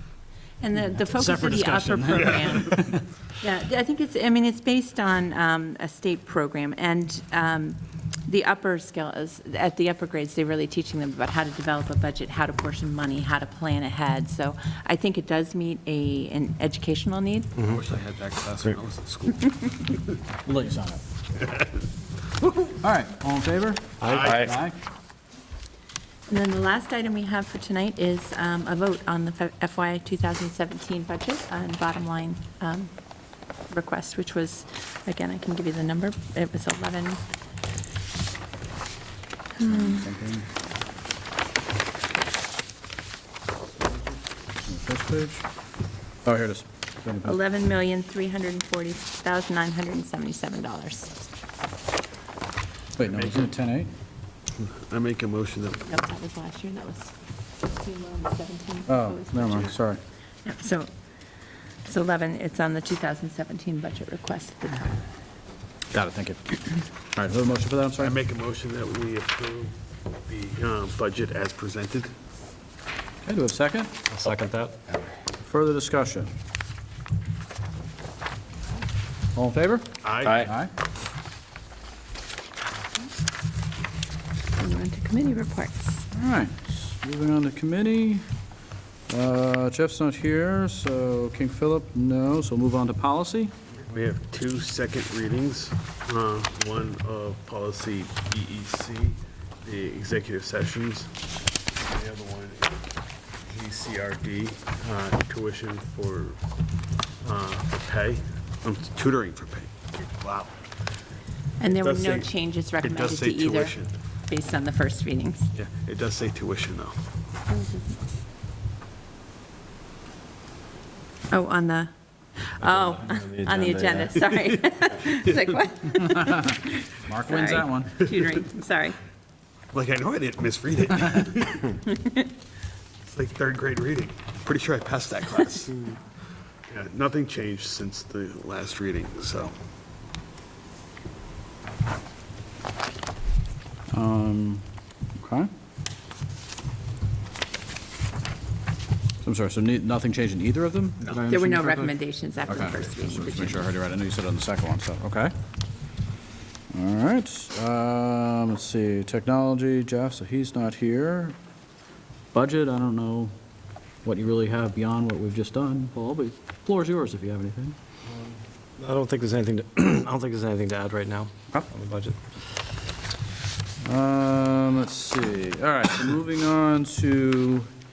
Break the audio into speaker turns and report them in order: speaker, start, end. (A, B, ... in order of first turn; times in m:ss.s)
0:00.6-0:02.8 A
0:01.0-0:03.0 B
0:03.4-0:17.5 A
0:17.6-0:20.0 C
0:20.4-0:21.0 B
0:22.7-0:24.8 B
0:24.0-0:24.5 D
0:24.1-0:24.5 C
0:26.3-0:32.9 A
0:33.7-0:37.2 A
0:39.6-0:40.0 A
0:39.7-0:40.5 B
0:44.6-0:45.4 B
0:46.2-0:47.4 B
0:47.2-0:51.2 A
0:53.0-0:53.9 B
0:53.0-0:53.4 C
0:54.6-0:55.9 C
0:55.9-0:59.7 A
0:58.9-1:00.0 B
1:00.4-1:00.9 A
1:01.9-1:05.0 A
1:05.9-1:08.2 B
1:08.0-1:09.7 C
1:10.3-1:12.1 C
1:13.2-1:13.9 B
1:14.1-1:14.8 D
1:15.4-1:16.3 B
1:19.3-1:20.7 B
1:20.0-1:20.5 C
1:20.2-1:20.5 D
1:24.6-1:26.0 A
1:26.1-1:28.2 B
1:29.1-1:33.5 B
1:33.8-1:41.1 C
1:41.8-1:42.8 C
1:43.5-1:46.4 C
1:47.2-1:50.5 C
1:51.6-1:53.8 A
1:51.7-1:53.9 C
1:54.3-1:55.5 A
1:55.5-1:57.0 C
1:57.5-1:58.0 A
2:01.3-2:01.9 A
2:02.5-2:09.0 A
2:02.6-2:04.1 D
2:04.1-2:05.6 C
2:06.1-2:08.0 B
2:09.7-2:11.8 C
2:13.1-2:15.8 C
2:16.7-2:19.5 C
2:23.9-2:24.6 B
2:25.2-2:25.5 B
2:29.2-2:31.9 B
2:31.3-2:33.7 A
2:32.5-2:35.3 B
2:36.7-2:41.4 B
2:42.3-2:43.3 B
2:44.0-2:47.8 B
2:48.1-2:52.2 D
2:53.8-2:57.7 B